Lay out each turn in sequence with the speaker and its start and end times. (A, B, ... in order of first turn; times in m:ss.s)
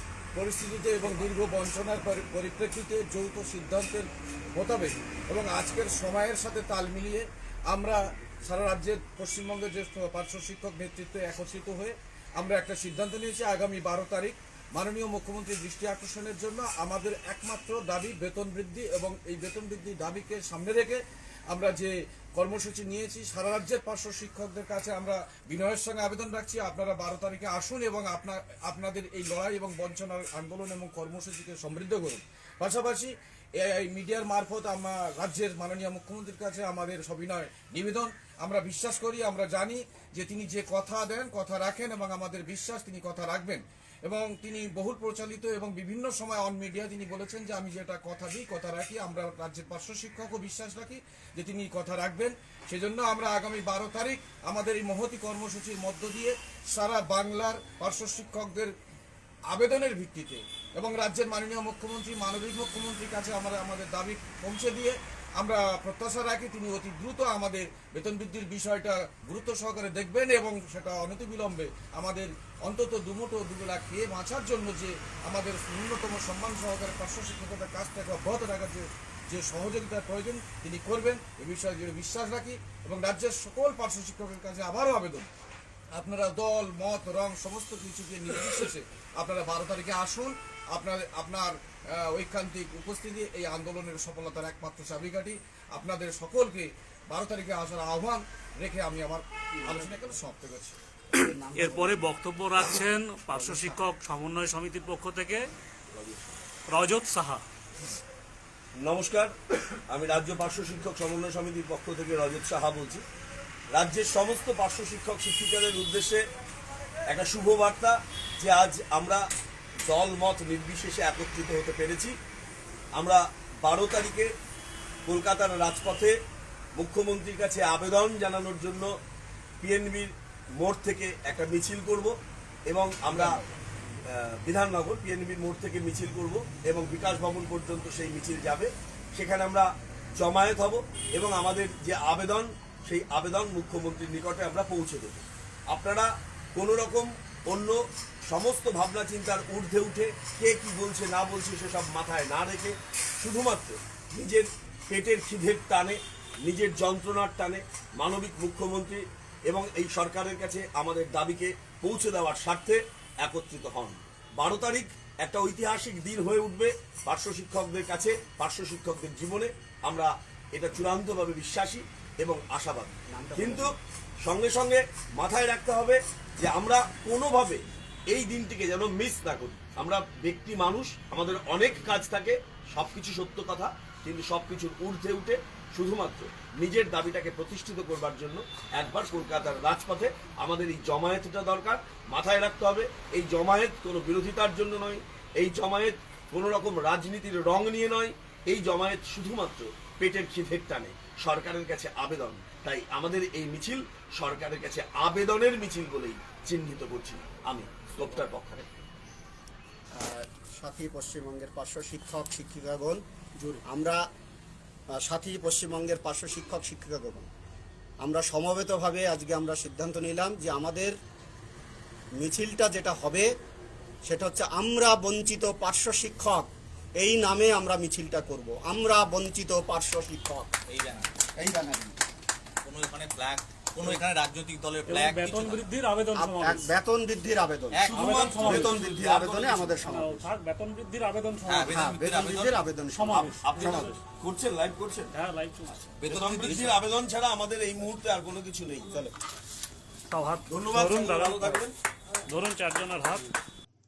0:00.3-0:58.7 A
0:59.5-1:25.3 A
1:25.9-1:40.8 A
1:39.6-1:40.1 B
1:41.2-1:45.5 C
1:41.2-1:42.1 B
1:43.3-1:43.8 B
1:45.9-1:46.3 D
1:46.7-1:47.4 C
1:48.8-1:49.3 D
1:49.9-1:53.0 D
1:53.7-1:56.2 D
1:57.1-1:59.2 D
1:59.9-2:02.1 D
2:03.0-2:04.3 D
2:05.0-2:06.1 D
2:06.8-2:08.9 D
2:09.6-2:12.1 D
2:12.7-2:13.4 D
2:13.0-2:13.5 B
2:14.1-2:57.6 D
2:53.1-2:53.8 B
2:58.1-3:28.7 D
3:29.9-3:33.0 B
3:33.6-3:34.0 B
3:35.0-3:37.3 B
3:38.0-3:41.0 B
3:42.2-3:43.3 B
3:44.0-3:50.5 B
3:50.7-3:51.1 E
3:51.3-3:52.0 B
3:52.6-3:55.6 E
3:54.9-3:56.7 C
3:56.1-4:00.3 B
3:57.7-3:58.0 E
3:57.8-3:59.9 D
3:57.9-3:58.8 C
3:59.8-4:01.8 C
4:01.5-4:02.5 E
4:01.7-4:03.9 B
4:02.9-4:03.9 C
4:03.1-4:05.1 D
4:05.1-4:06.0 C
4:06.0-4:06.7 E
4:06.0-4:09.0 D
4:08.9-4:09.1 B
4:10.1-4:11.6 C
4:10.5-4:11.7 D
4:12.3-4:13.3 C